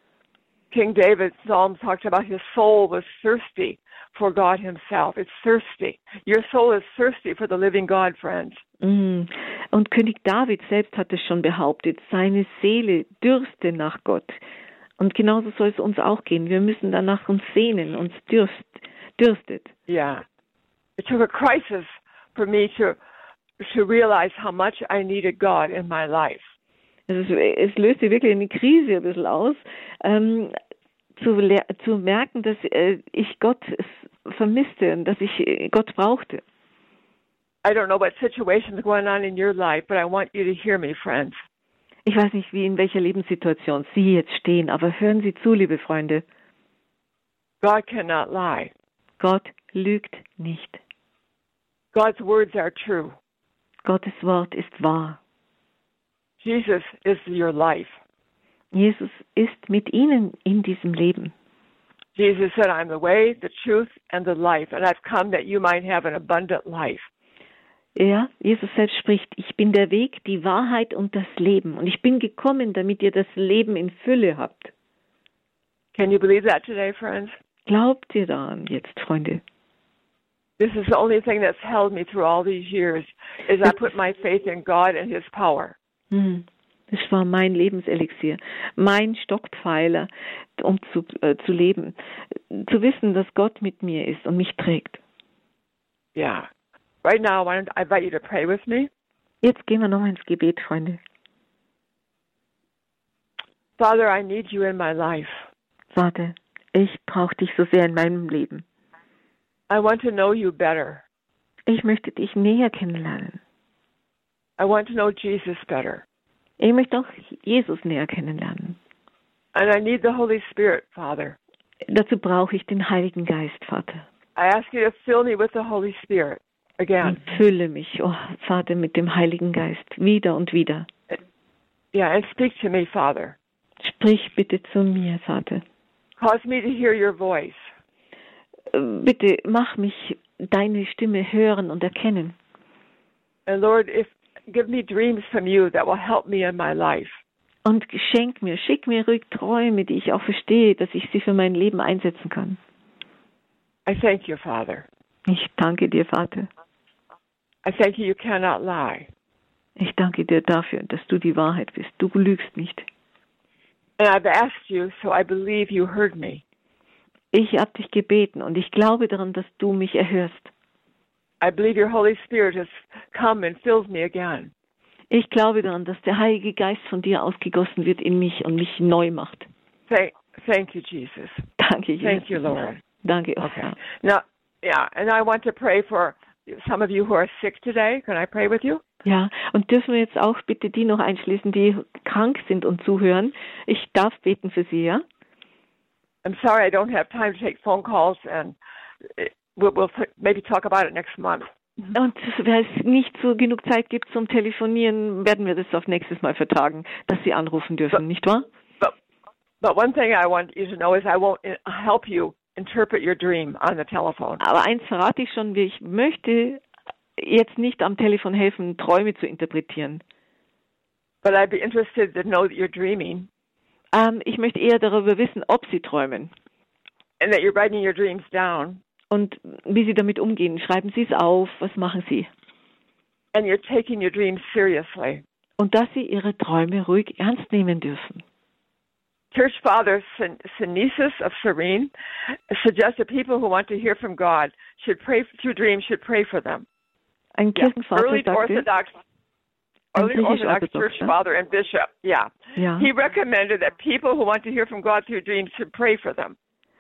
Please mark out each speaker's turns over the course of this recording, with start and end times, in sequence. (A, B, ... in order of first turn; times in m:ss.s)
0:00.7-0:08.6 A
0:08.8-0:14.4 B
0:15.0-0:19.7 B
0:19.9-0:20.2 A
0:21.0-0:23.0 A
0:23.6-0:26.5 A
0:27.1-0:30.5 B
0:31.2-0:36.4 B
0:37.6-0:41.4 A
0:42.1-0:46.2 B
0:47.6-0:48.7 A
0:49.2-0:50.8 B
0:51.9-0:53.2 A
0:53.8-0:55.2 B
0:56.4-0:58.0 A
0:58.7-1:01.3 B
1:02.2-1:07.1 A
1:08.0-1:14.7 B
1:16.0-1:17.3 A
1:17.7-1:19.4 B
1:20.6-1:25.8 A
1:26.1-1:35.0 B
1:36.2-1:36.5 A
1:37.0-1:38.9 A
1:39.4-1:41.0 B
1:43.8-1:45.4 A
1:45.9-1:48.6 B
1:49.7-1:51.0 A
1:51.7-1:53.4 B
1:54.6-1:56.0 A
1:56.6-1:58.8 B
1:59.5-2:01.4 A
2:01.9-2:04.1 B
2:04.4-2:07.2 A
2:07.0-2:10.9 B
2:11.9-2:13.4 A
2:13.8-2:15.6 B
2:16.2-2:17.6 A
2:18.7-2:22.4 B
2:23.5-2:27.2 A
2:27.6-2:32.6 B
2:33.9-2:34.9 A
2:35.3-2:36.5 B
2:37.6-2:39.1 A
2:39.8-2:42.8 B
2:44.0-2:46.4 A
2:47.3-2:50.5 B
2:51.4-2:54.5 A
2:55.1-2:59.5 B
2:59.9-3:01.5 A
3:01.6-3:02.3 B
3:02.0-3:02.8 A
3:03.0-3:03.8 B
3:03.4-3:08.8 A
3:09.0-3:15.0 B
3:16.2-3:18.6 A
3:19.1-3:21.9 A
3:21.9-3:28.5 B
3:29.6-3:34.4 A
3:34.4-3:36.6 B
3:37.2-3:40.0 B
3:41.2-3:43.3 A
3:43.9-3:46.3 B
3:47.2-3:48.8 A
3:49.1-3:52.3 B
3:53.3-3:55.2 A
3:55.6-3:58.2 B
3:59.3-4:01.9 A
4:02.5-4:06.7 A
4:07.4-4:08.7 B
4:07.6-4:09.0 A
4:10.0-4:11.2 B
4:10.0-4:16.4 A
4:12.6-4:12.9 B